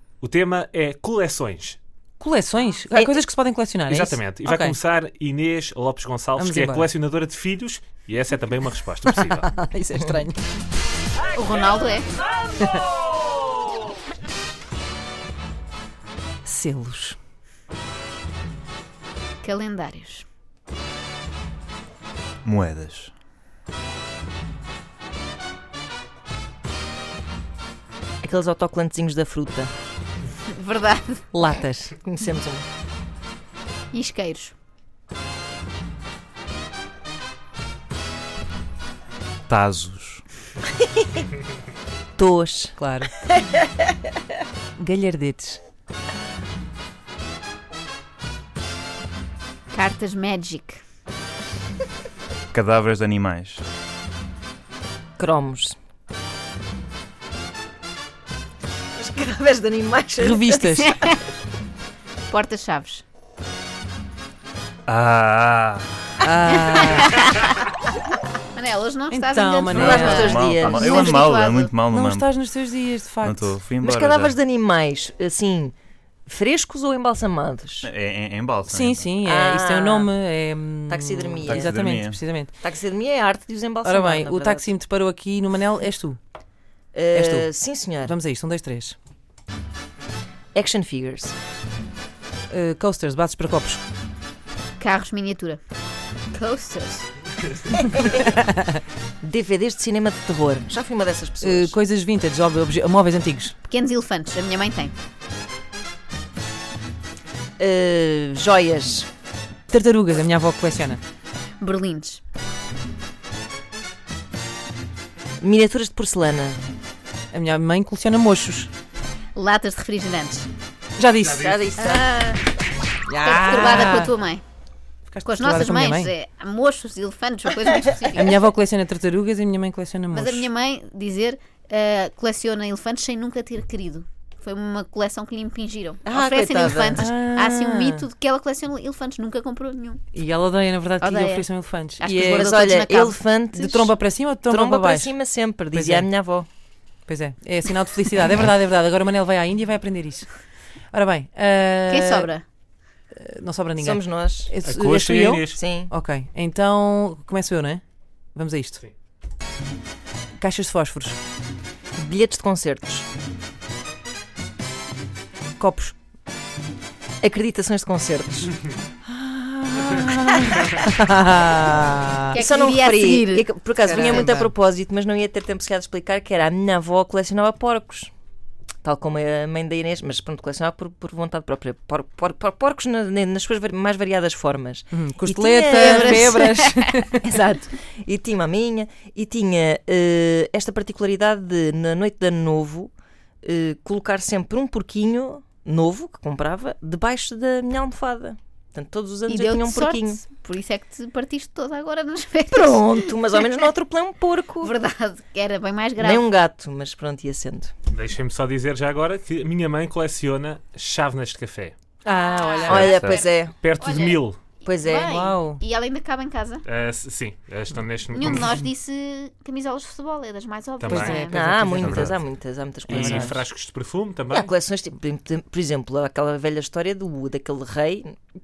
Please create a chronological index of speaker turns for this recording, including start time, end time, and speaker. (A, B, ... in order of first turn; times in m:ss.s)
0:00.2-0:01.8 A
0:02.2-0:04.8 B
0:02.9-0:03.2 C
0:03.9-0:09.5 A
0:06.4-0:06.9 B
0:09.1-0:10.4 B
0:11.3-0:12.1 D
0:16.4-0:17.2 B
0:19.4-0:20.2 D
0:22.4-0:23.1 E
0:28.2-0:29.7 C
0:30.5-0:31.3 D
0:31.3-0:32.6 C
0:33.9-0:34.5 D
0:39.5-0:40.2 E
0:42.2-0:42.7 C
0:42.8-0:43.1 B
0:44.8-0:45.6 B
0:49.7-0:50.8 D
0:52.5-0:53.6 E
0:55.2-0:55.7 C
0:59.0-1:00.6 C
1:00.2-1:01.0 B
1:00.8-1:01.2 D
1:02.3-1:03.0 D
1:04.9-1:06.0 E
1:06.2-1:07.2 B
1:08.5-1:10.1 D
1:09.1-1:10.5 B
1:09.7-1:11.2 C
1:09.7-1:12.4 E
1:10.9-1:11.7 D
1:11.9-1:13.5 B
1:13.2-1:14.4 E
1:13.8-1:15.7 C
1:16.3-1:17.9 C
1:17.8-1:19.2 E
1:18.7-1:22.5 B
1:19.2-1:20.1 C
1:20.9-1:21.7 C
1:21.4-1:22.2 E
1:22.6-1:24.7 C
1:23.8-1:26.2 B
1:26.9-1:28.1 C
1:27.1-1:29.0 B
1:30.5-1:31.3 C
1:32.5-1:33.8 B
1:34.8-1:35.6 D
1:36.3-1:37.1 D
1:38.0-1:38.8 B
1:39.2-1:41.8 C
1:41.4-1:43.6 B
1:43.7-1:44.9 D
1:47.6-1:49.1 C
1:49.7-1:51.0 B
1:51.6-1:52.2 D
1:55.4-1:56.6 C
1:57.3-1:58.7 B
1:59.3-2:00.5 D
2:01.0-2:01.5 B
2:01.4-2:02.2 C
2:01.8-2:02.4 D
2:03.1-2:04.1 B
2:03.2-2:04.4 D
2:05.1-2:06.1 B
2:05.2-2:08.2 D
2:08.1-2:10.5 B
2:10.1-2:20.0 D
2:16.0-2:17.1 C
2:16.9-2:18.0 B
2:20.1-2:22.5 B
2:21.0-2:21.4 D
2:22.0-2:23.2 D
2:22.0-2:26.5 C
2:23.5-2:25.1 B
2:25.7-2:26.1 B
2:27.1-2:30.3 B
2:30.9-2:32.3 B
2:31.9-2:32.4 D
2:33.1-2:37.8 B
2:33.8-2:34.5 C
2:34.6-2:35.6 A
2:35.5-2:35.9 C
2:38.3-2:38.8 B
2:40.4-2:41.2 B
2:42.0-2:43.0 C
2:45.6-2:46.0 B
2:47.2-2:48.5 C
2:49.1-2:52.4 B
2:50.0-2:50.6 C
2:52.3-2:53.5 D
2:52.3-2:58.1 C
2:53.8-2:54.5 B
2:58.8-3:06.5 C
3:04.9-3:07.2 B
3:05.8-3:06.8 D
3:07.2-3:12.9 C
3:13.4-3:20.2 C
3:19.3-3:22.9 D
3:22.5-3:24.7 C
3:24.6-3:26.2 D
3:26.0-3:27.7 C
3:27.9-3:31.7 A
3:32.0-3:33.1 B
3:32.2-3:33.2 D
3:32.7-3:33.5 C
3:32.8-3:33.2 E
3:33.5-3:34.4 A
3:33.8-3:36.6 D
3:34.6-3:35.1 C
3:35.0-3:35.6 B
3:36.6-3:38.7 A
3:38.1-3:41.3 D
3:40.8-3:41.3 A
3:40.8-3:42.2 B
3:41.3-3:43.4 C
3:41.8-3:42.1 E
3:42.9-3:44.5 A
3:42.9-3:43.4 B
3:44.3-3:48.2 C